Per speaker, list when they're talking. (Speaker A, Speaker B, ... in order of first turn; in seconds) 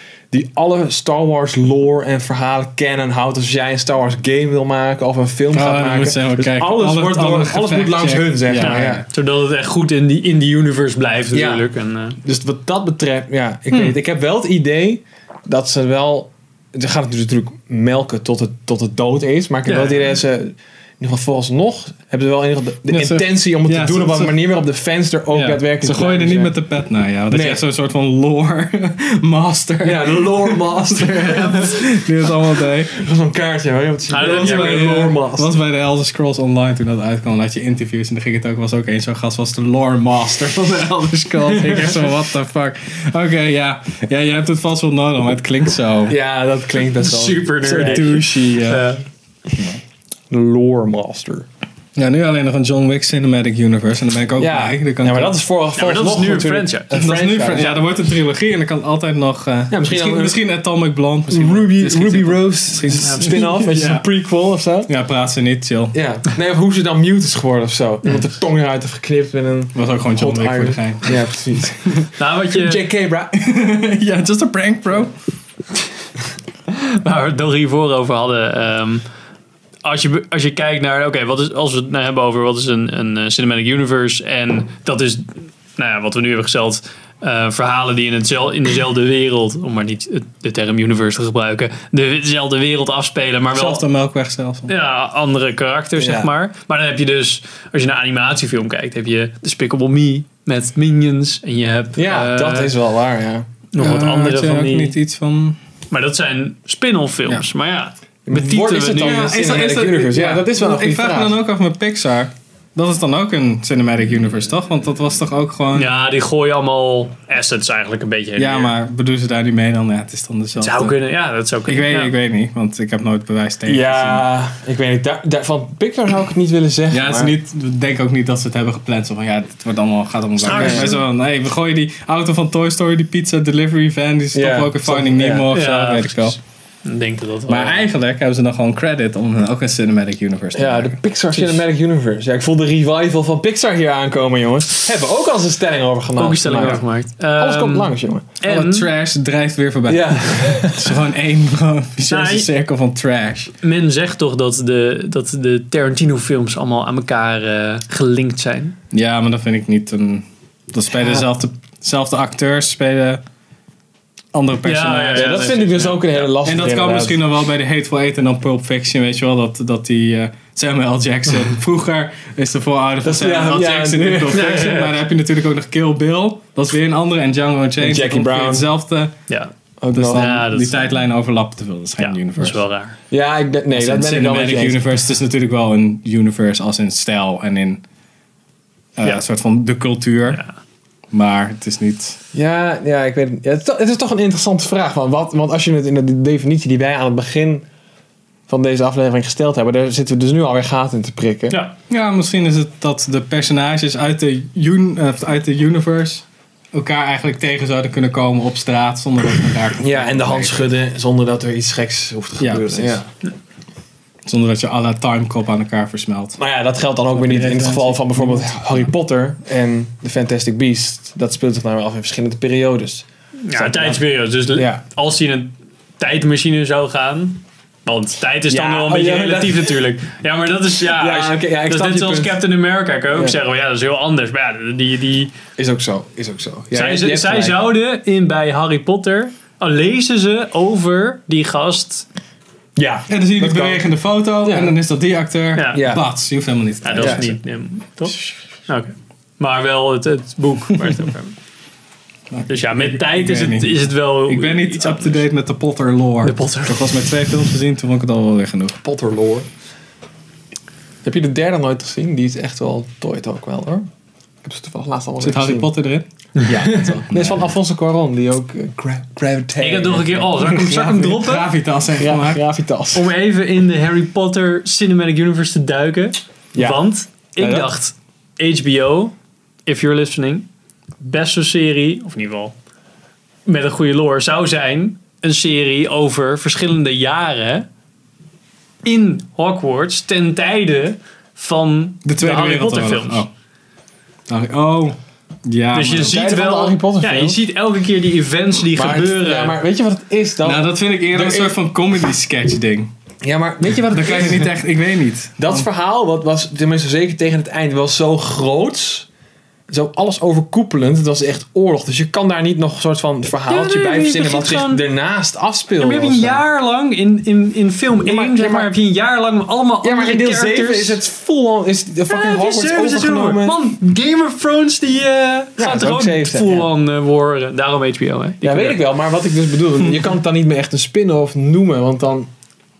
Speaker A: 0.3-9.0, 11.3-11.7, 12.2-26.5, 27.3-27.6, 29.8-32.3, 32.9-35.5, 46.1-48.2, 50.3-51.5, 54.4-57.8, 59.7-60.4, 61.3-64.9, 65.9-73.4, 96.0-96.3, 102.0-103.5, 108.3-111.4, 123.7-127.3, 130.5-131.0, 134.3-135.5, 140.6-146.8, 147.4-148.3, 149.9-151.0, 161.0-161.2, 165.1-167.2, 173.0-174.9, 177.8-178.7, 179.8-180.4, 183.1-184.8, 192.3-197.6, 198.5-201.6, 209.8-213.1, 216.4-224.0, 224.6-224.8, 228.5-229.9, 230.8-232.4, 235.6-237.6, 242.8-244.8, 245.7-246.1, 258.8-259.5, 261.0-263.9, 264.4-265.7, 266.4-270.5, 272.0-273.1, 276.5-276.9, 277.4-277.7, 296.0-297.4, 298.7-301.6, 303.2-304.5, 305.4-309.1, 309.7-316.4, 318.0-318.7, 319.8-323.6, 325.6-326.7, 328.4-332.3
Speaker B: 5.5-9.1, 13.7-14.0, 22.9-24.4, 25.3-32.9, 34.2-46.2, 47.6-48.9, 52.0-55.4, 56.9-64.0, 64.9-66.0, 69.8-71.3, 73.4-75.1, 93.5-94.7, 103.8-105.6, 108.8-115.9, 118.4-121.0, 121.7-124.3, 126.9-136.4, 137.5-141.6, 148.4-153.5, 158.9-163.2, 164.3-179.1, 179.9-182.6, 183.7-187.8, 189.0-190.4, 191.1-192.2, 201.9-210.7, 212.4-213.0, 214.2-216.4, 217.1-218.9, 243.1-247.4, 252.3-258.8, 265.2-267.5, 270.4-272.4, 292.1-293.3, 294.3-296.2, 300.4-302.9, 303.6-305.6
Speaker C: 8.6-12.2, 19.7-20.1, 34.1-35.0, 47.0-49.0, 55.8-57.0, 63.0-63.5, 72.2-72.8, 76.7-79.0, 79.8-93.8, 94.7-102.7, 103.7-105.0, 105.9-109.3, 115.7-118.7, 120.6-122.1, 130.4-131.0, 135.5-137.8, 146.2-148.9, 152.1-152.5, 153.6-158.8, 164.6-166.0, 180.1-180.9, 182.0-183.0, 223.4-235.3, 236.7-242.1, 245.6-245.9, 246.8-251.4, 252.5-255.2, 256.2-256.9, 266.4-266.9, 269.6-271.5, 272.9-279.1, 279.6-280.5, 281.0-282.6, 283.5-287.7, 288.8-293.3, 295.7-299.6, 313.5-314.8, 315.8-321.0, 322.1-328.8